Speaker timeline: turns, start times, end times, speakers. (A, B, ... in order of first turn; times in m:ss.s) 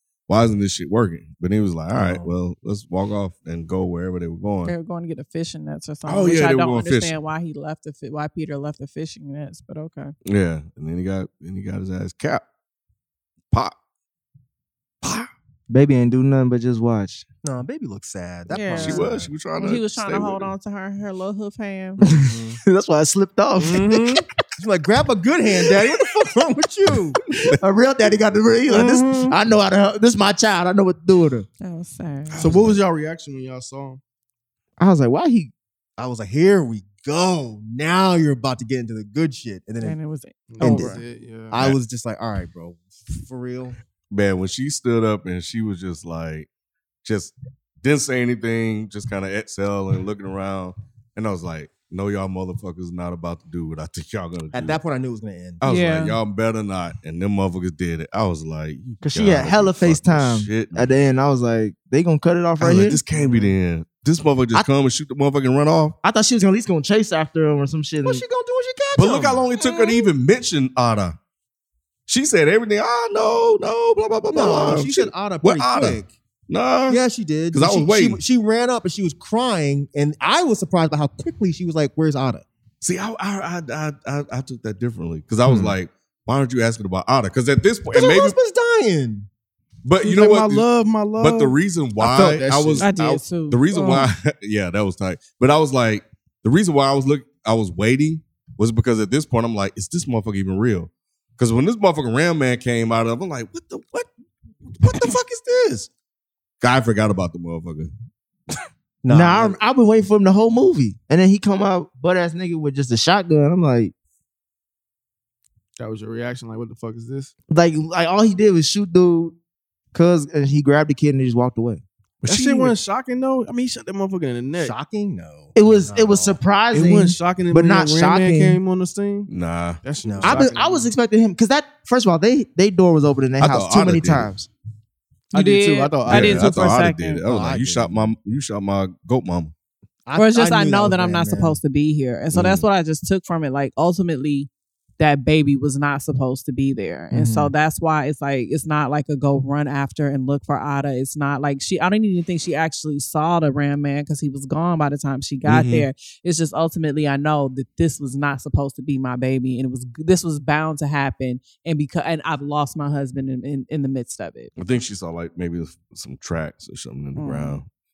0:00.3-0:04.7 A
0:01.9-0:02.3 B
0:04.6-0:10.1 C
0:06.1-0:07.1 A
0:10.3-0:12.4 A
0:15.0-0:15.3 A
0:15.7-0:17.2 D
0:17.4-0:19.3 B
0:18.5-0:22.0 C
0:18.7-0:20.5 A
0:22.0-0:24.2 D
0:22.1-0:22.6 B
0:23.6-0:27.2 B
0:27.6-0:31.5 D
0:28.7-0:29.4 B
0:31.6-0:32.5 C
0:32.3-0:32.8 A
0:32.4-0:34.0 E
0:34.8-0:35.5 D
0:36.0-0:40.0 B
0:39.8-0:41.0 C
0:40.5-0:41.6 E
0:40.6-0:41.0 B
0:41.5-0:43.8 B
0:44.1-0:46.5 A
0:47.0-0:54.8 A
0:54.5-0:55.6 B
0:55.6-1:00.9 A
0:55.6-0:56.2 C
0:59.0-1:03.0 D
1:02.6-1:06.0 A
1:03.1-1:03.5 B
1:06.0-1:08.2 D
1:08.0-1:09.5 B
1:09.0-1:11.2 A
1:12.1-1:17.0 A
1:14.3-1:16.1 B
1:16.9-1:22.4 B
1:17.5-1:18.2 A
1:22.8-1:28.4 A
1:25.4-1:25.8 B
1:27.9-1:29.3 B
1:29.8-1:44.1 A
1:30.0-1:32.9 E
1:32.8-1:34.1 C
1:44.8-1:45.2 A
1:44.8-1:45.9 B
1:46.6-1:47.9 A
1:49.0-1:49.6 B
1:49.1-1:53.9 D
1:55.8-1:57.3 E
1:57.5-1:59.4 D
1:59.9-2:01.8 D
2:02.2-2:02.7 A
2:02.2-2:04.8 E
2:04.6-2:06.4 B
2:05.6-2:08.6 D
2:06.7-2:09.3 E
2:09.3-2:09.8 A
2:09.8-2:10.9 E
2:10.0-2:10.5 B
2:10.2-2:14.5 D
2:13.4-2:14.3 A
2:15.3-2:16.7 E
2:15.3-2:17.2 C
2:16.1-2:19.5 A
2:17.3-2:18.1 B
2:20.1-2:21.6 B
2:20.2-2:44.5 C
2:22.3-2:22.6 A
2:27.1-2:27.5 B
2:35.5-2:35.9 A
2:44.6-2:47.6 A
2:47.2-2:47.6 C